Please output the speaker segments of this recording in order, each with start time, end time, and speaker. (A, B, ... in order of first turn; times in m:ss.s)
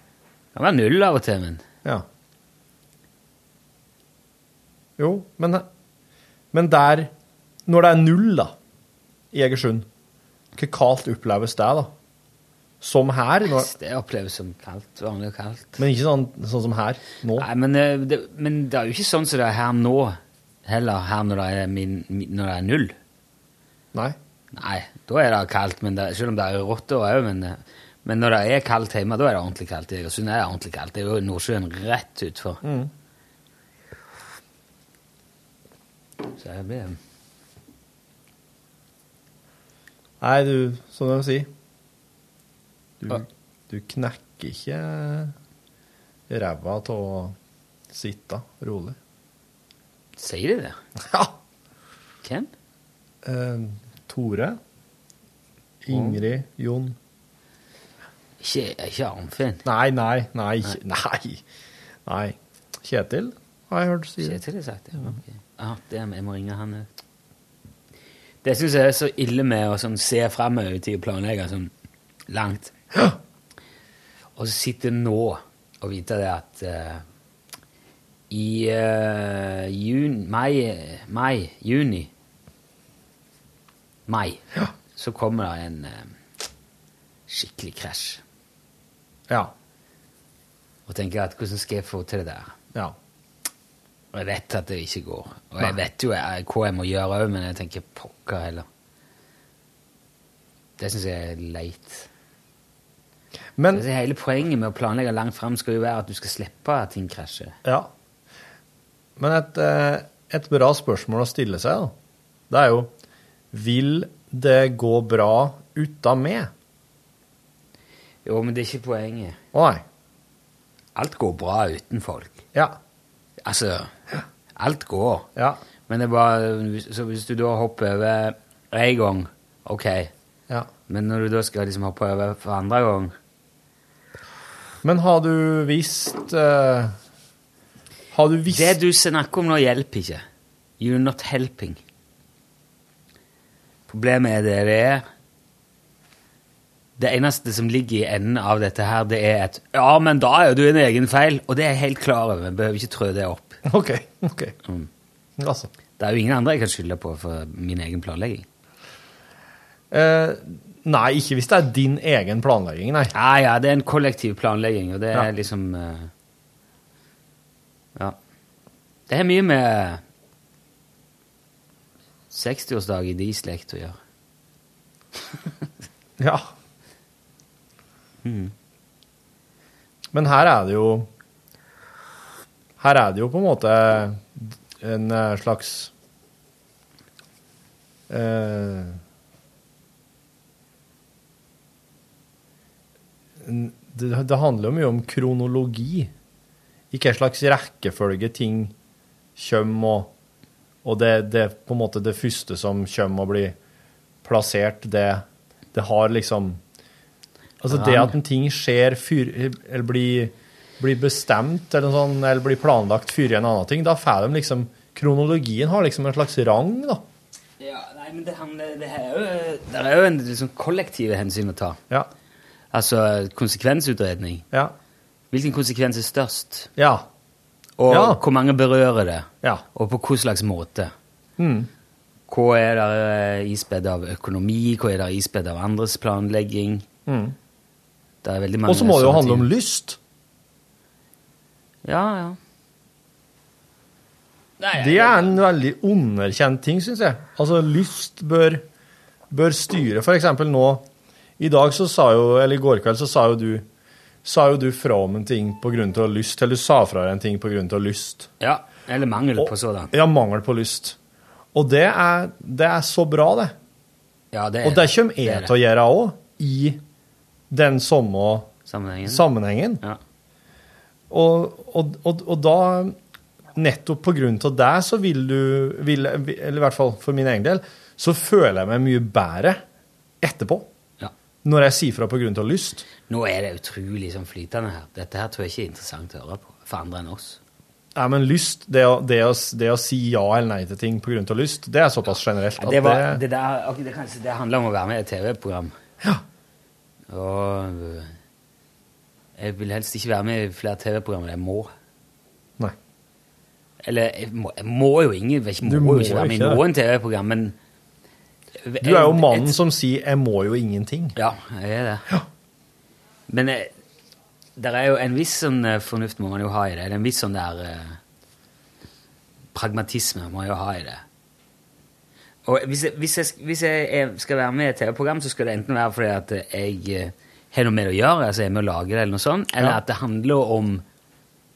0:00.6-0:01.6 A
0:05.0-0:05.7 B
0:06.5-0:07.1 B
0:07.7-0:08.5 B
0:09.3-0:09.9 B
0:10.6-0:11.9 B
0:12.8-0:13.7 B
0:13.6-0:15.8 A
0:15.8-0:17.5 B
0:17.4-0:23.0 A
0:24.5-0:32.6 A
0:32.6-0:32.9 B
0:36.3-0:37.0 A
0:40.2-0:41.5 B
0:43.0-0:45.3 B
0:46.3-0:47.4 B
0:47.9-0:49.0 B
0:50.2-0:50.8 A
0:51.0-0:51.4 B
0:52.2-0:52.5 A
0:53.2-0:54.6 B
0:55.8-0:57.0 B
0:55.9-0:56.2 A
0:58.4-0:59.6 A
0:59.6-1:01.4 B
1:02.1-1:04.4 B
1:04.2-1:06.9 A
1:08.4-1:11.7 A
1:12.3-1:12.7 A
1:14.4-1:17.0 A
1:18.3-1:22.1 A
1:24.1-1:24.4 A
1:25.0-1:26.1 A
1:27.3-1:28.2 A
1:29.3-1:29.5 B
1:30.9-1:32.5 A
1:34.1-1:38.7 A
1:40.8-1:42.1 A
1:43.6-1:43.8 B
1:43.7-1:47.6 A
1:47.6-1:47.9 B
1:49.2-1:51.9 B
1:52.5-1:52.9 B
1:53.5-1:56.5 B
1:58.2-1:59.4 A
1:59.5-1:59.8 B
2:01.0-2:02.4 A
2:03.4-2:03.9 A
2:04.6-2:05.3 A
2:05.9-2:10.1 A
2:10.9-2:13.1 A
2:14.8-2:17.0 B
2:18.1-2:18.8 B
2:18.5-2:20.2 A
2:20.8-2:21.8 A
2:23.9-2:25.0 A
2:27.0-2:33.6 A
2:33.7-2:34.6 B
2:35.4-2:35.7 B
2:36.0-2:38.5 A
2:39.9-2:43.1 B
2:43.2-2:46.1 A
2:49.1-2:50.0 A
2:52.3-2:54.0 A
2:56.2-2:56.5 B
2:58.2-2:58.5 A
3:00.1-3:01.1 B
3:02.8-3:05.9 B
3:08.1-3:09.0 B
3:13.4-3:16.1 B
3:16.9-3:18.7 B
3:19.4-3:20.1 B
3:20.8-3:23.6 B
3:24.2-3:26.6 B
3:27.6-3:37.0 B
3:27.7-3:28.1 A
3:37.6-3:41.8 A
3:42.7-3:44.4 A
3:45.3-3:46.7 A
3:46.8-3:47.1 B
3:47.8-3:50.9 A
3:47.9-3:48.2 B
3:51.4-3:51.7 B
3:52.3-3:56.8 A
3:57.1-3:57.4 B
3:58.2-3:59.5 A
3:58.7-4:00.0 B
4:01.8-4:02.4 A
4:04.6-4:05.4 A
4:04.7-4:08.6 B
4:09.3-4:10.9 B
4:11.4-4:13.7 B
4:14.2-4:18.3 B
4:18.4-4:19.9 A
4:19.4-4:21.0 B
4:21.5-4:23.6 B
4:24.3-4:25.5 A
4:24.6-4:26.8 B
4:27.5-4:28.5 B
4:28.7-4:29.2 A
4:29.1-4:29.8 B
4:31.1-4:33.0 B
4:33.6-4:39.6 B
4:40.2-4:40.7 B
4:41.4-4:42.9 B
4:43.1-4:47.4 A
4:48.0-4:53.2 B
4:52.6-4:55.7 A
4:57.1-4:58.1 A
4:59.4-5:01.7 A
5:03.8-5:07.6 A
5:05.6-5:06.6 B
5:08.6-5:09.6 A
5:08.8-5:11.2 B
5:11.2-5:12.1 A
5:13.3-5:13.7 A
5:14.6-5:18.0 A
5:19.5-5:21.0 A
5:22.5-5:30.8 A